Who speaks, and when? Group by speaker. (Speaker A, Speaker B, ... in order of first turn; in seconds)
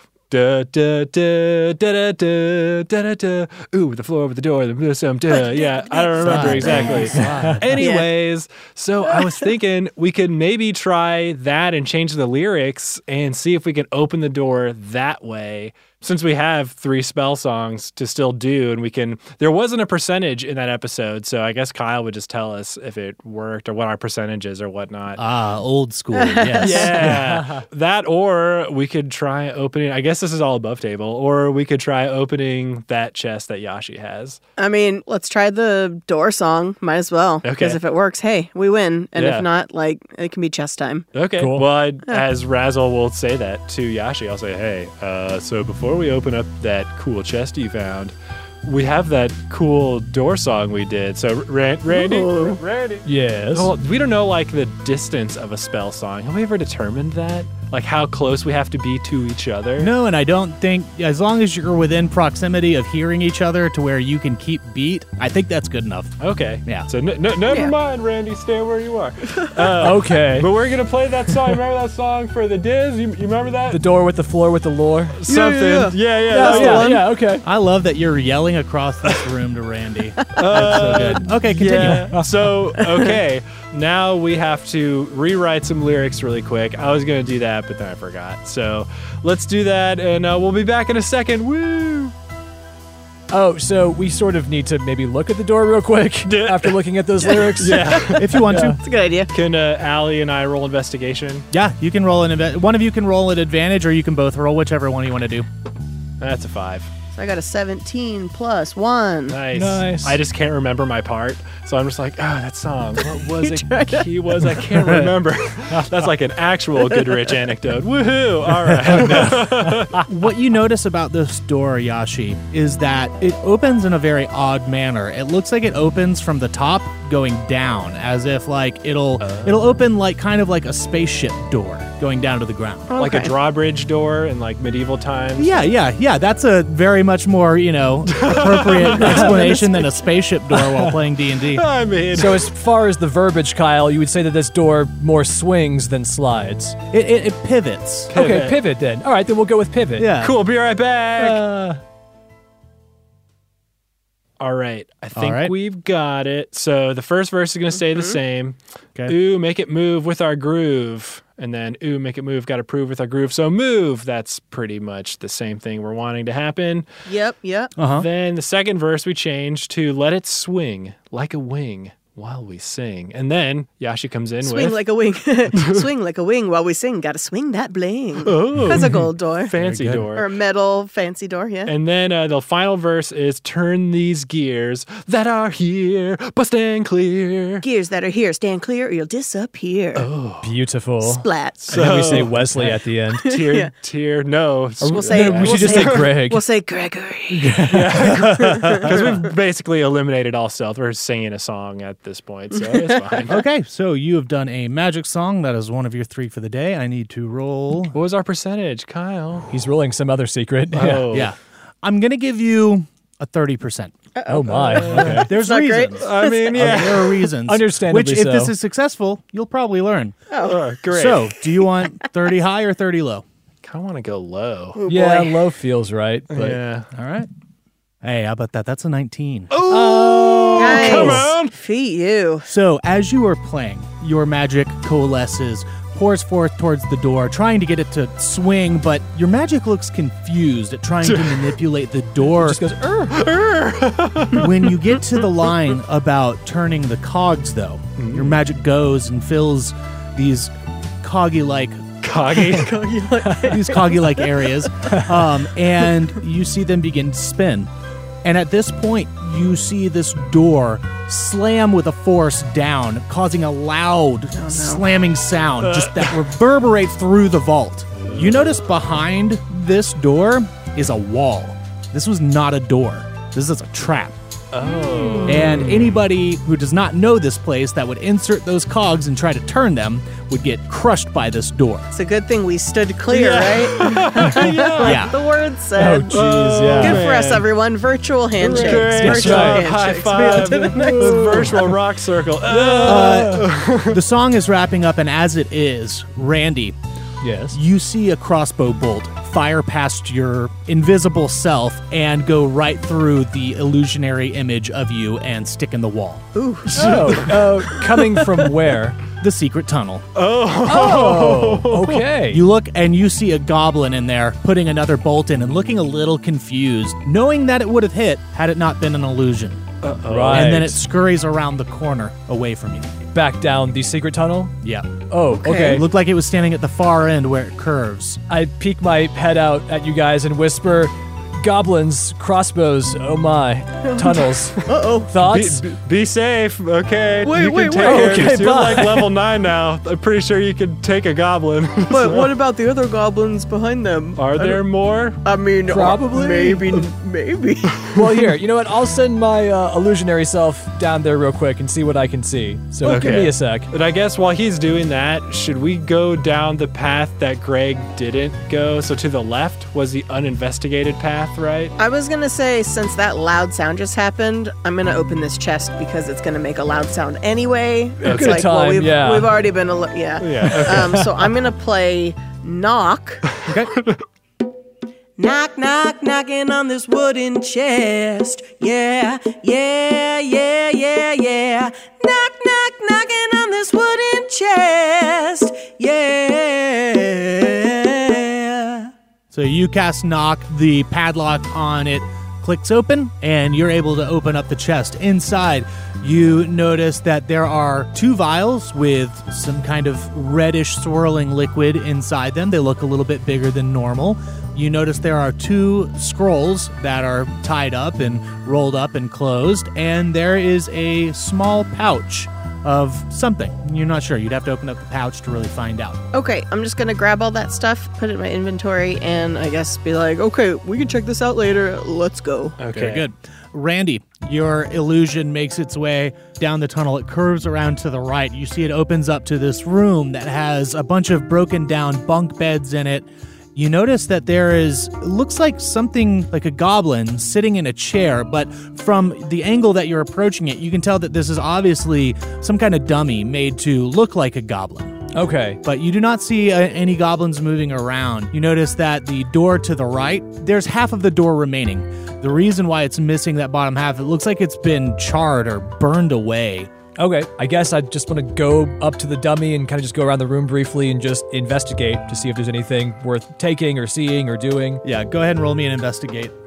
Speaker A: 0.3-25.2, 26.6-34.4, 37.4-37.8, 39.1-39.5, 41.1-59.9, 66.2-73.8, 75.2-77.0, 80.4-92.1, 96.3-96.8, 97.6-98.5, 99.3-101.5, 106.2-106.9, 109.3-120.0, 129.2-129.7, 133.0-135.7, 138.1-139.9, 141.4-142.5, 148.1-148.6, 150.2-151.4, 154.4-158.6, 159.1-166.9, 167.9-174.8, 175.5-175.9, 178.2-180.3, 181.7-187.7, 189.9-190.5, 191.6-196.1, 197.7-203.4, 207.9-209.5, 210.7-211.3, 214.7-215.2, 216.0-217.3, 220.4-221.3, 223.6-224.8, 226.3-226.9, 229.5-231.5, 241.0-241.6, 243.1-245.6, 248.0-248.4, 252.0-252.9, 265.7-266.2, 268.0-268.3, 274.5-276.0, 283.1-285.1, 286.1-287.4, 288.4-294.0, 306.7-307.6, 310.1-312.1, 319.8-320.6, 335.2-342.3, 344.2-345.2, 352.8-361.7, 368.0-368.4, 370.2-371.1, 422.6-423.0
Speaker B: 5.3-7.2, 7.8-8.1, 26.1-26.9, 34.6-41.1, 51.9-52.6, 67.5-67.8, 75.3-77.1, 80.4-81.0, 82.8-83.1, 97.2-97.8, 98.5-99.3, 107.2-109.4, 113.0-114.9, 132.9-133.3, 157.9-158.2, 167.1-167.7, 174.4-179.5, 180.1-181.7, 187.6-190.1, 191.0-191.7, 193.1-193.7, 194.9-199.2, 202.5-203.3, 214.2-216.8, 220.3-220.6, 224.8-225.4, 230.6-232.5, 252.3-254.5, 264.4-264.8, 281.9-286.2, 286.8-291.8, 306.4-307.2, 307.7-308.5, 325.4-325.9, 333.9-335.1, 337.2-338.4, 341.9-344.6, 345.2-347.9, 361.8-373.4, 375.2-388.9, 416.1-422.6
Speaker C: 6.2-7.9, 25.2-27.2, 59.8-66.9, 77.4-82.2, 98.2-98.8, 101.5-105.5, 118.8-132.9, 135.4-141.7, 146.9-148.1, 150.0-150.4, 151.2-151.8, 155.2-155.5, 167.8-168.1, 179.5-180.1, 197.3-199.1, 203.3-208.0, 211.1-213.9, 214.9-220.2, 220.9-223.2, 226.9-227.3, 228.0-231.3, 232.5-242.6, 244.3-251.9, 253.4-257.7, 258.2-274.2, 275.3-281.9, 284.8-285.2, 289.1-289.4, 292.8-296.8, 297.5-306.3, 309.2-310.0, 312.3-319.6, 320.3-323.0, 324.6-325.0, 325.6-328.2, 373.5-373.7, 389.3-416.0, 422.7-445.0, 445.6-456.7, 464.8-466.3
Speaker D: 7.2-7.6, 26.6-27.6, 41.4-41.6, 53.0-53.7, 69.8-70.5, 73.7-75.2, 76.3-77.5, 81.8-82.2, 93.3-98.8, 109.5-110.2, 118.9-119.5, 139.0-139.6, 142.1-146.8, 148.1-150.1, 190.4-193.3, 194.8-196.4, 209.5-211.1, 214.3-215.3, 217.4-218.5, 224.9-226.6, 229.7-230.8, 242.4-243.2, 285.8-287.1, 288.4-289.7, 290.5-291.6, 292.5-293.5, 297.2-297.6, 306.7-309.0, 310.7-312.4, 320.1-320.8, 323.1-324.6, 325.1-325.9, 328.3-335.6, 337.8-339.1, 345.7-346.8, 347.9-353.7, 368.0-369.4, 370.8-371.1, 445.1-445.6, 457.0-464.8